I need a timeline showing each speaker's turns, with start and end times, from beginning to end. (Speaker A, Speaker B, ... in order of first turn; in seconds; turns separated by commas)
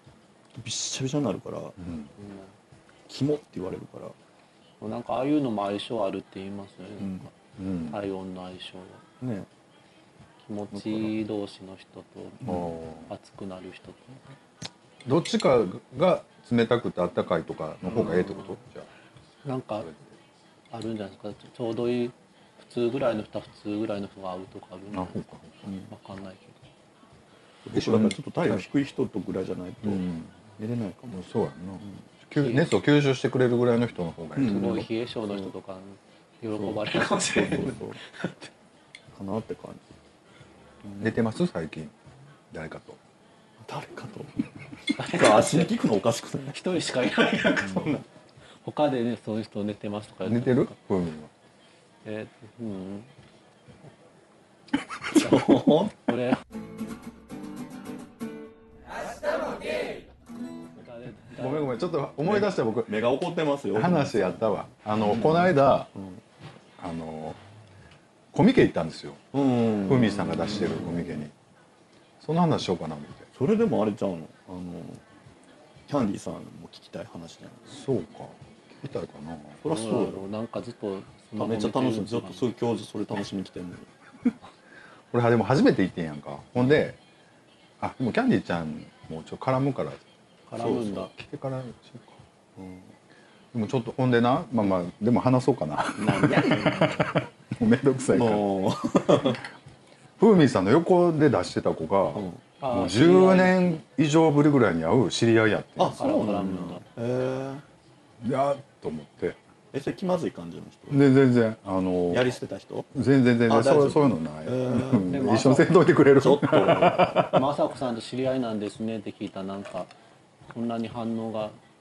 Speaker A: 0.5-1.8, Speaker B: 1.8-2.1, Speaker C: 2.2-2.5, Speaker A: 3.1-4.1, Speaker C: 4.8-7.3, Speaker A: 7.0-7.3, Speaker B: 7.6-8.0, Speaker C: 7.9-9.0, Speaker A: 9.2-9.5, Speaker C: 10.4-12.5, Speaker A: 10.7-11.1, Speaker A: 12.4-12.7, Speaker B: 12.5-13.1, Speaker C: 13.1-14.3, Speaker B: 15.1-18.9, Speaker C: 17.9-18.6, Speaker C: 19.4-19.9, Speaker B: 19.8-20.1, Speaker C: 20.7-25.2, Speaker B: 24.9-25.6, Speaker C: 25.9-26.6, Speaker A: 27.7-31.2, Speaker B: 27.7-28.6, Speaker B: 29.8-30.3, Speaker B: 31.1-34.9, Speaker C: 32.4-32.7, Speaker A: 34.4-35.5, Speaker C: 34.4-38.5, Speaker A: 36.6-38.0, Speaker A: 39.1-39.8, Speaker A: 40.8-41.1, Speaker B: 41.0-41.9, Speaker B: 42.5-43.0, Speaker A: 43.6-44.3, Speaker C: 45.0-45.7, Speaker A: 45.0-46.7, Speaker C: 46.5-48.0, Speaker A: 47.7-48.0, Speaker C: 48.6-50.8, Speaker B: 50.3-51.3, Speaker C: 52.0-53.1, Speaker A: 55.1-56.0, Speaker C: 55.1-56.4, Speaker C: 60.8-62.0, Speaker B: 61.4-63.0, Speaker A: 62.2-66.2, Speaker B: 63.7-65.9, Speaker B: 66.8-67.4, Speaker B: 68.3-69.2, Speaker A: 69.3-71.2, Speaker B: 69.8-71.3, Speaker B: 72.2-73.3, Speaker A: 73.3-75.0, Speaker A: 75.9-77.8, Speaker B: 77.7-79.6, Speaker A: 79.6-80.2, Speaker C: 79.7-82.4, Speaker A: 81.4-83.9, Speaker B: 85.1-87.0, Speaker B: 87.8-90.0, Speaker C: 90.5-91.1, Speaker A: 90.6-91.0, Speaker B: 91.0-92.2, Speaker A: 92.6-92.9, Speaker B: 93.5-98.5, Speaker A: 95.9-97.1, Speaker A: 98.1-99.4, Speaker B: 100.2-106.0, Speaker A: 102.1-102.4, Speaker C: 102.6-103.8, Speaker A: 105.8-107.6, Speaker C: 106.0-106.8, Speaker B: 108.2-109.4, Speaker A: 109.7-111.1, Speaker B: 110.9-112.4, Speaker A: 112.1-112.9, Speaker B: 112.9-117.5, Speaker A: 113.5-115.5, Speaker C: 115.0-115.7, Speaker A: 116.2-117.4, Speaker C: 117.3-119.9, Speaker C: 120.5-121.6